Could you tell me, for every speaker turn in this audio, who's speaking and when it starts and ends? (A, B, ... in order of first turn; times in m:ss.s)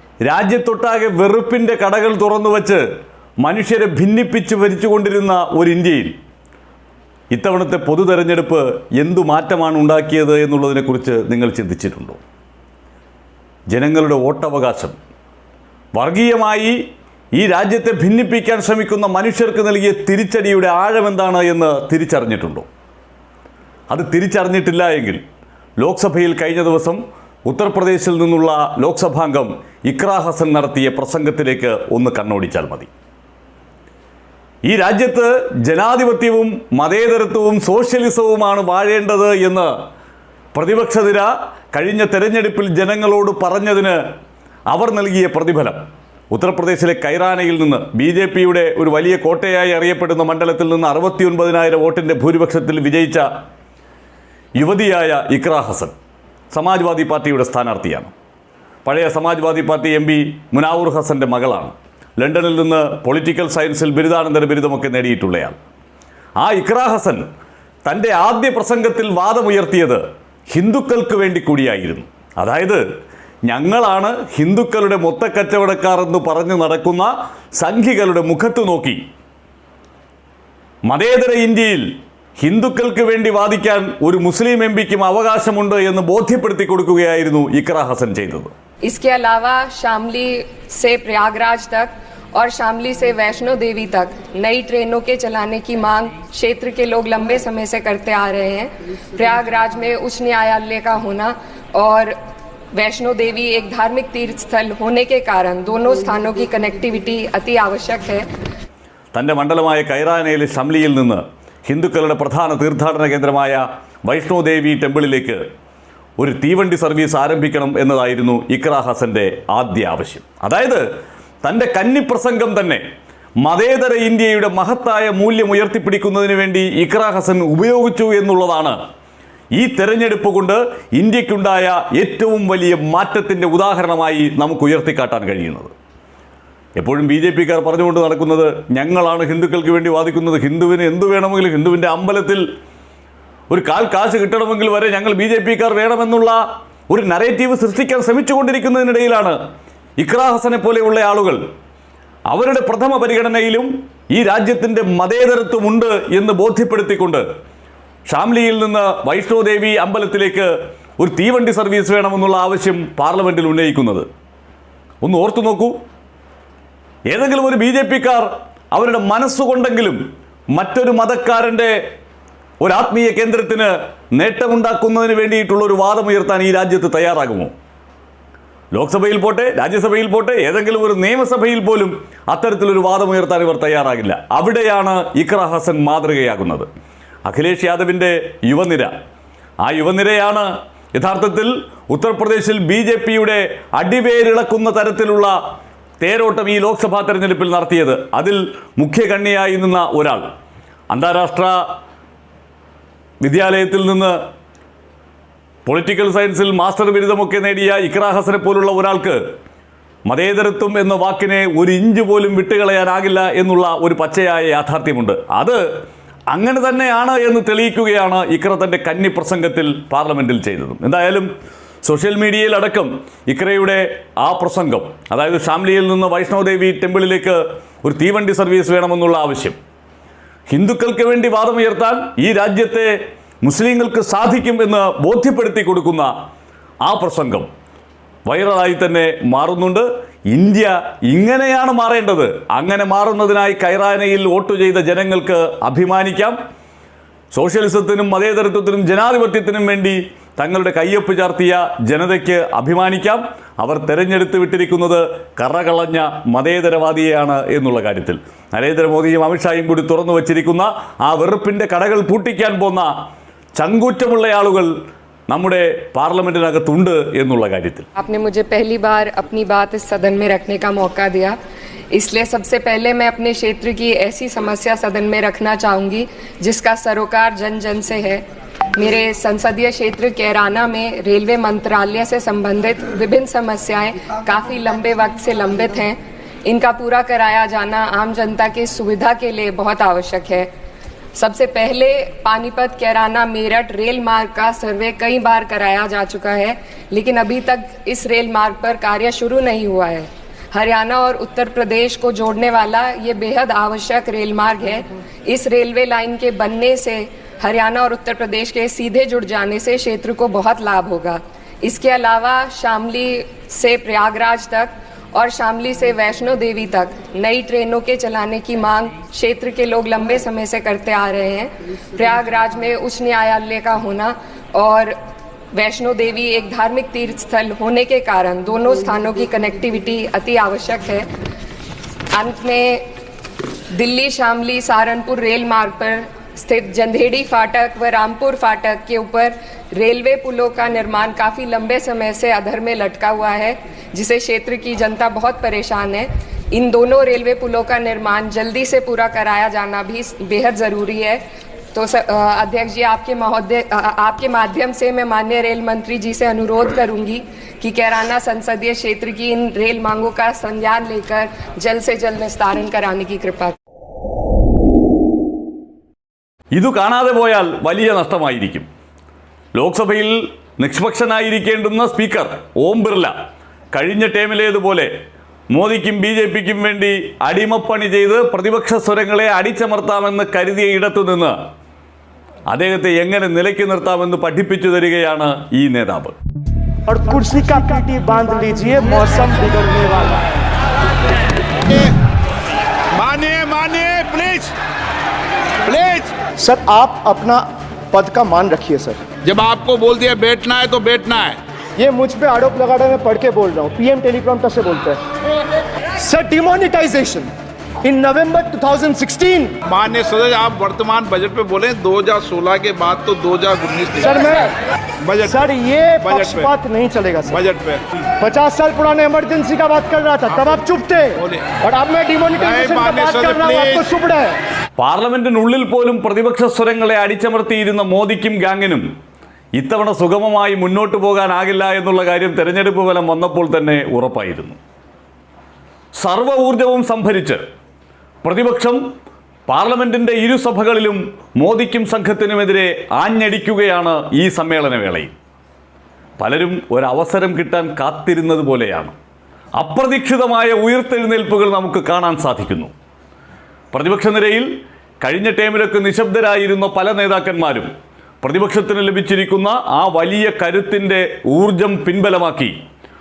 0:00.2-0:02.8 A
0:03.4-0:06.1 A
0:07.3-0:12.2 A
0:13.7-0:15.0 A
0:15.9-0:16.8 A
0:17.4-0:22.6 A
0:23.9-0:25.2 A
0:25.8-0:32.9 A
0:34.6-0:39.7 A
0:40.5-0:44.0 A
0:44.7-0:45.8 A
0:46.3-0:53.2 A
0:54.6-0:55.9 A
0:56.5-0:58.1 A
0:58.8-1:05.6 A
1:06.4-1:07.2 A
1:07.8-1:12.8 A
1:13.5-1:19.0 A
1:20.8-1:28.5 A
1:28.8-1:42.1 B
1:42.7-1:48.2 B
1:49.1-1:55.4 A
1:56.2-2:00.8 A
2:01.4-2:02.8 A
2:03.4-2:08.8 A
2:09.6-2:15.7 A
2:16.8-2:22.4 A
2:23.5-2:29.4 A
2:30.0-2:31.4 A
2:32.3-2:37.2 A
2:38.1-2:44.1 A
2:45.0-2:45.7 A
2:47.1-2:50.0 A
2:50.5-2:51.8 A
2:52.6-2:57.5 A
2:58.7-3:06.7 A
3:07.2-3:08.9 A
3:09.6-3:15.3 A
3:16.0-3:20.2 A
3:20.9-3:21.6 A
3:23.2-3:24.2 A
3:25.6-3:29.2 A
3:30.0-3:35.6 A
3:36.3-3:41.3 A
3:41.8-3:49.6 A
3:50.5-3:56.1 A
3:56.8-3:57.5 A
3:58.2-4:06.4 A
4:07.3-4:22.9 A
4:23.6-4:24.7 A
4:25.3-4:27.9 A
4:28.0-4:31.4 B
4:31.9-4:38.2 B
4:38.7-4:50.5 B
4:51.1-5:25.0 B
5:25.5-5:31.1 B
5:32.1-5:32.9 B
5:33.7-5:51.2 B
5:51.7-6:03.6 B
6:06.5-6:08.6 A
6:09.5-6:13.1 A
6:13.7-6:14.9 A
6:15.5-6:21.4 A
6:22.5-6:26.1 A
6:26.9-6:30.2 C
6:31.7-6:31.9 D
6:32.9-6:34.5 D
6:35.6-6:36.1 D
6:36.4-6:39.0 C
6:39.2-6:41.4 D
6:41.8-6:45.0 C
6:46.0-6:47.3 C
6:47.8-6:49.5 C
6:49.6-6:54.3 D
6:54.0-6:54.5 C
6:55.0-6:55.4 D
6:55.2-6:57.4 C
6:56.0-6:56.5 D
6:57.3-6:57.8 D
6:58.2-7:04.3 C
7:01.2-7:01.5 D
7:02.4-7:03.8 D
7:04.8-7:08.8 A
7:09.6-7:14.6 A
7:16.0-7:17.4 A
7:18.2-7:18.8 A
7:19.5-7:25.1 A
7:26.2-7:28.9 A
7:29.6-7:32.7 A
7:33.7-7:34.5 A
7:35.0-7:37.7 A
7:38.2-7:42.6 A